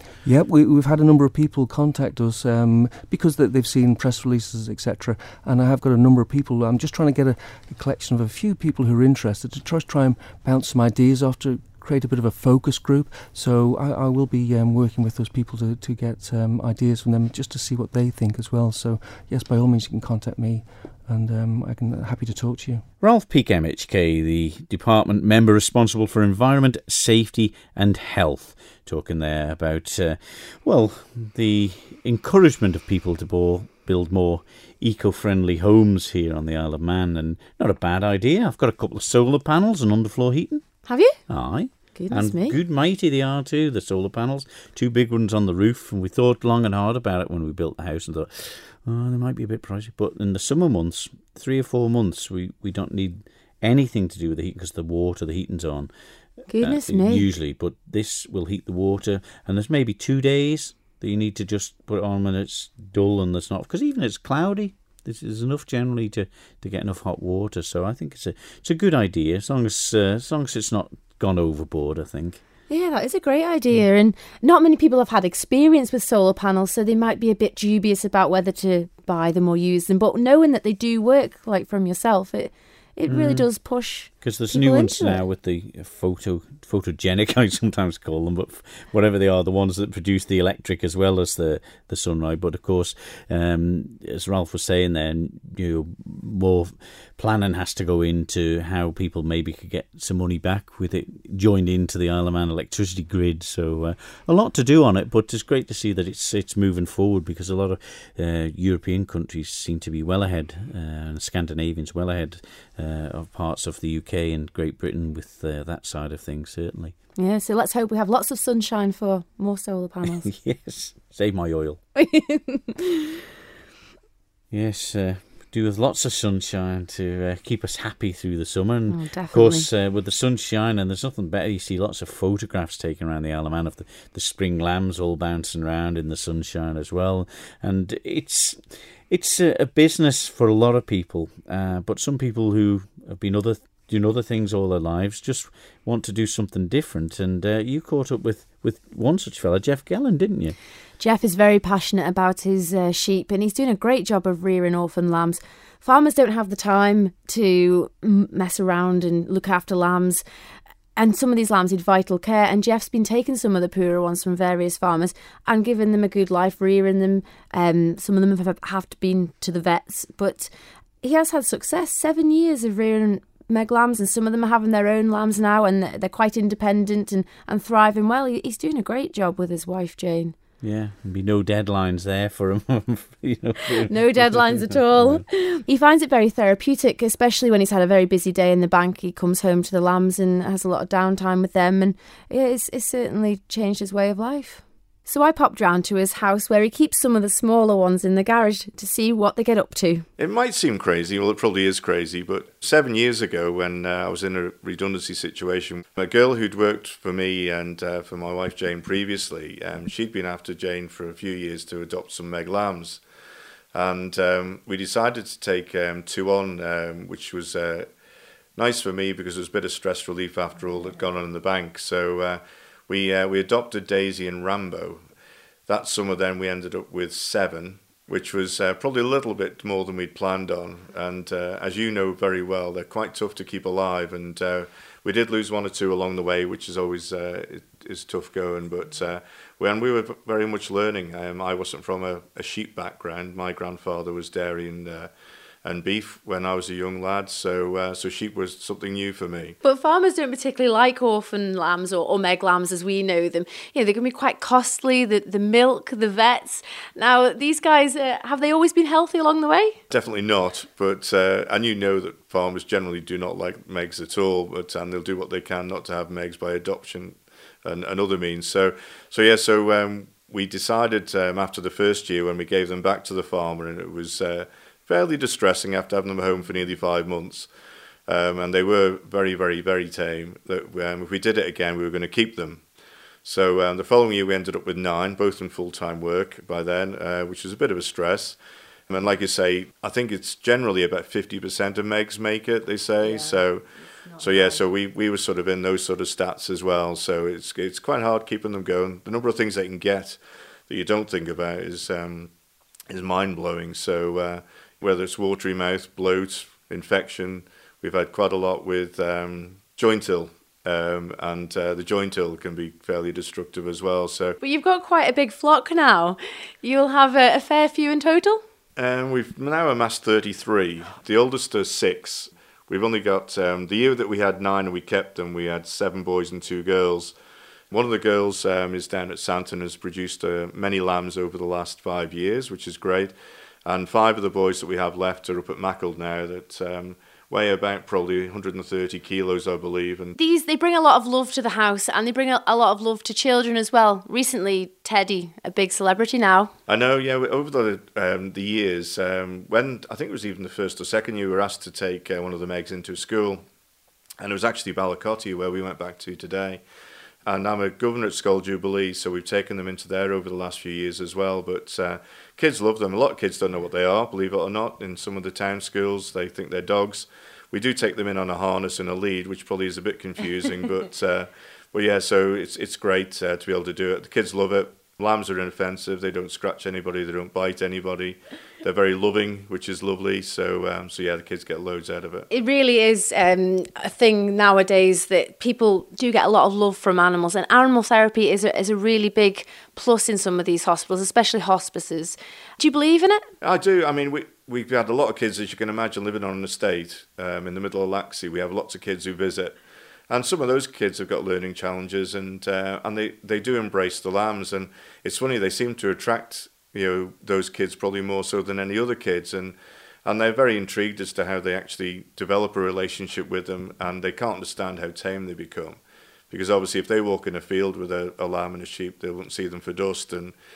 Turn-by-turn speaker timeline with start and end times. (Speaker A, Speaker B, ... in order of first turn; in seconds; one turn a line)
Speaker A: 0.2-22.8
Speaker B: 23.0-40.6
Speaker C: 40.9-41.1
Speaker B: 41.3-55.9
Speaker C: 42.0-42.5
Speaker C: 56.5-57.3
Speaker B: 56.6-72.4
Speaker C: 72.7-85.2
Speaker B: 83.1-83.5
Speaker B: 84.2-117.0
Speaker C: 117.2-120.3
Speaker B: 120.2-121.8
Speaker C: 122.0-123.2
Speaker B: 124.5-150.6
Speaker C: 128.9-129.7
Speaker C: 151.0-160.2
Speaker C: 161.0-170.5
Speaker C: 171.0-180.3
Speaker B: 180.6-185.2
Speaker C: 183.9-200.1
Speaker D: 200.2-213.0
Speaker D: 213.7-217.9
Speaker D: 218.6-225.0
Speaker D: 225.7-245.1
Speaker D: 245.7-249.6
Speaker C: 249.6-259.8
Speaker D: 259.9-277.5
Speaker D: 278.1-282.6
Speaker D: 283.2-288.4
Speaker D: 288.9-302.3
Speaker D: 302.9-314.4
Speaker C: 314.4-318.4
Speaker D: 318.8-327.1
Speaker D: 327.7-333.1
Speaker D: 333.7-340.2
Speaker C: 340.2-346.5
Speaker D: 346.7-353.4
Speaker D: 354.2-356.6
Speaker D: 357.3-382.3
Speaker C: 382.3-393.2
Speaker D: 393.4-399.6
Speaker D: 400.1-415.8
Speaker D: 416.3-420.4